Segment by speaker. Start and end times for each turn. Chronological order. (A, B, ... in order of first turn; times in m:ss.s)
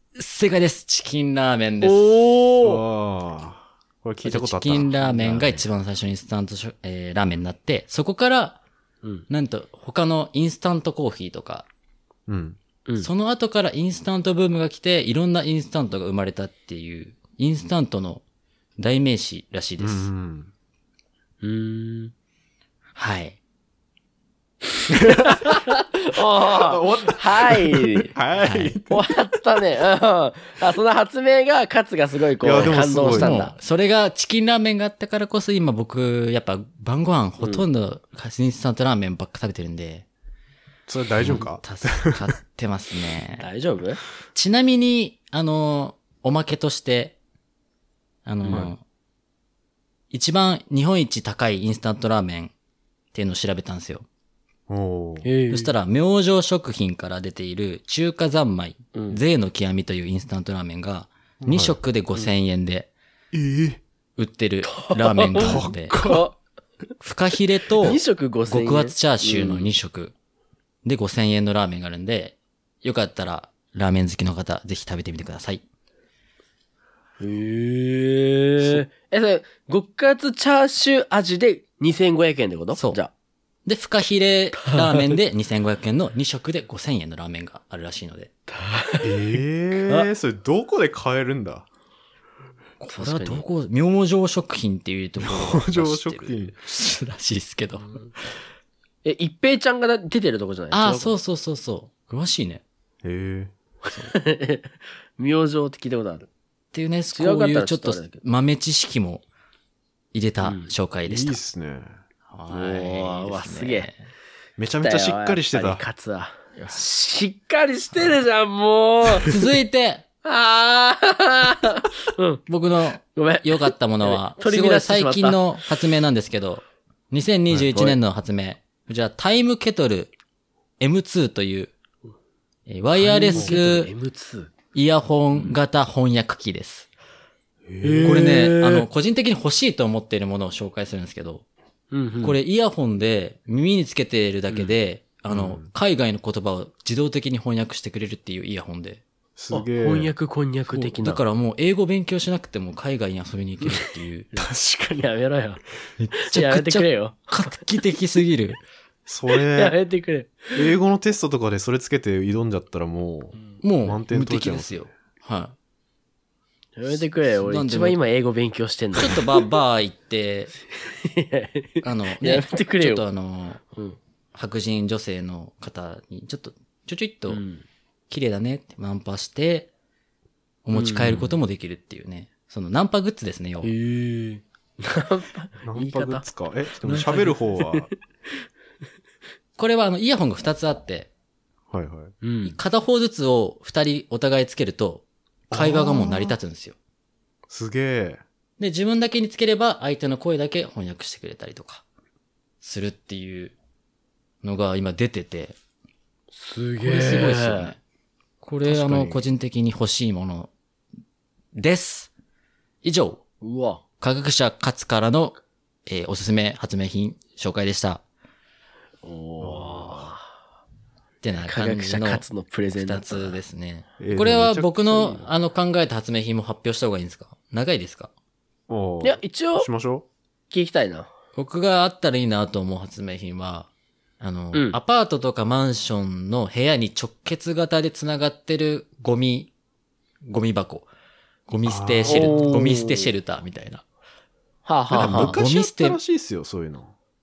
0:00.2-0:02.3 A
0:01.8-0:02.8 B
0:02.6-0:05.6 C
0:04.2-0:08.6 A
0:09.3-0:11.6 A
0:12.3-0:12.6 C
0:13.0-0:18.2 A
0:18.8-0:20.1 A
0:19.8-0:20.5 C
0:21.4-0:22.1 B
0:23.0-0:23.4 A
0:24.9-0:25.5 C
0:25.2-0:28.1 B
0:26.4-0:29.1 C
0:28.4-0:28.8 A
0:28.9-0:33.5 B
0:32.4-0:33.3 C
0:32.6-0:40.0 A
0:37.4-0:37.6 B
0:40.9-0:42.3 C
0:41.2-0:43.5 A
0:43.4-0:44.0 B
0:44.3-0:47.2 A
0:48.2-0:48.8 A
0:48.4-0:48.7 C
0:50.1-0:52.5 A
0:53.1-0:54.0 A
0:54.7-0:55.3 C
0:55.2-0:55.7 B
0:55.5-1:02.9 A
0:58.9-0:59.2 B
1:01.4-1:01.8 C
1:03.3-1:03.8 C
1:04.2-1:06.0 A
1:04.6-1:06.4 B
1:05.4-1:06.3 C
1:07.0-1:10.1 A
1:07.8-1:09.7 B
1:10.8-1:15.6 A
1:17.2-1:23.1 B
1:22.7-1:23.0 A
1:23.6-1:28.3 A
1:24.6-1:25.2 B
1:28.5-1:30.1 B
1:29.0-1:31.7 C
1:32.8-1:38.1 A
1:32.9-1:33.4 B
1:35.2-1:36.6 C
1:39.0-1:41.2 B
1:40.7-1:42.6 A
1:43.0-1:44.0 C
1:44.0-1:46.3 B
1:46.7-1:49.2 A
1:47.1-1:48.2 B
1:50.1-1:51.4 A
1:50.4-1:50.7 B
1:51.0-1:52.0 C
1:52.3-1:54.0 A
1:52.5-1:53.9 B
1:54.6-1:55.8 C
1:54.8-1:59.3 B
1:59.2-2:00.0 A
2:00.2-2:02.4 B
2:02.5-2:10.1 A
2:03.1-2:05.4 B
2:10.8-2:11.7 A
2:12.7-2:13.9 A
2:12.9-2:14.5 B
2:14.7-2:16.9 A
2:17.6-2:18.2 C
2:17.8-2:18.9 B
2:18.0-2:21.4 A
2:21.9-2:22.4 B
2:22.2-2:29.0 A
2:25.3-2:25.7 C
2:29.4-2:30.1 C
2:29.5-2:31.2 B
2:30.7-2:34.3 A
2:34.3-2:35.1 C
2:35.0-2:35.6 B
2:36.0-2:38.6 A
2:36.2-2:37.6 B
2:39.0-2:39.8 C
2:39.3-2:40.7 B
2:40.5-2:44.9 C
2:43.6-2:45.5 A
2:46.8-2:49.4 B
2:46.9-2:48.0 A
2:48.9-2:50.5 A
2:50.8-2:53.0 B
2:51.8-2:53.6 A
2:54.3-2:57.4 A
2:57.3-2:57.6 B
2:58.1-2:59.7 A
3:00.6-3:03.7 A
3:00.7-3:01.3 B
3:03.6-3:06.2 B
3:05.6-3:07.9 C
3:06.8-3:07.4 A
3:06.9-3:07.9 B
3:09.6-3:11.1 A
3:11.7-3:12.1 C
3:12.2-3:12.6 B
3:12.4-3:16.8 A
3:15.5-3:16.4 C
3:17.5-3:18.2 C
3:18.6-3:21.8 A
3:22.6-3:23.5 A
3:24.4-3:25.5 A
3:26.3-3:27.7 B
3:26.8-3:27.8 A
3:28.4-3:30.5 A
3:28.6-3:29.3 C
3:31.5-3:32.1 A
3:32.8-3:33.2 A
3:33.4-3:33.8 B
3:34.0-3:38.0 A
3:39.0-3:40.2 B
3:39.4-3:40.1 C
3:41.2-3:42.2 A
3:41.4-3:43.4 B
3:42.8-3:48.1 A
3:44.0-3:45.3 C
3:48.7-3:50.0 C
3:49.0-3:49.7 B
3:50.5-3:51.1 B
3:51.4-3:53.7 A
3:54.2-3:59.5 A
3:54.5-3:54.8 B
4:00.2-4:00.9 A
4:01.5-4:03.8 A
4:01.6-4:02.6 C
4:02.0-4:03.1 B
4:04.6-4:05.4 B
4:04.9-4:06.0 A
4:04.9-4:06.9 C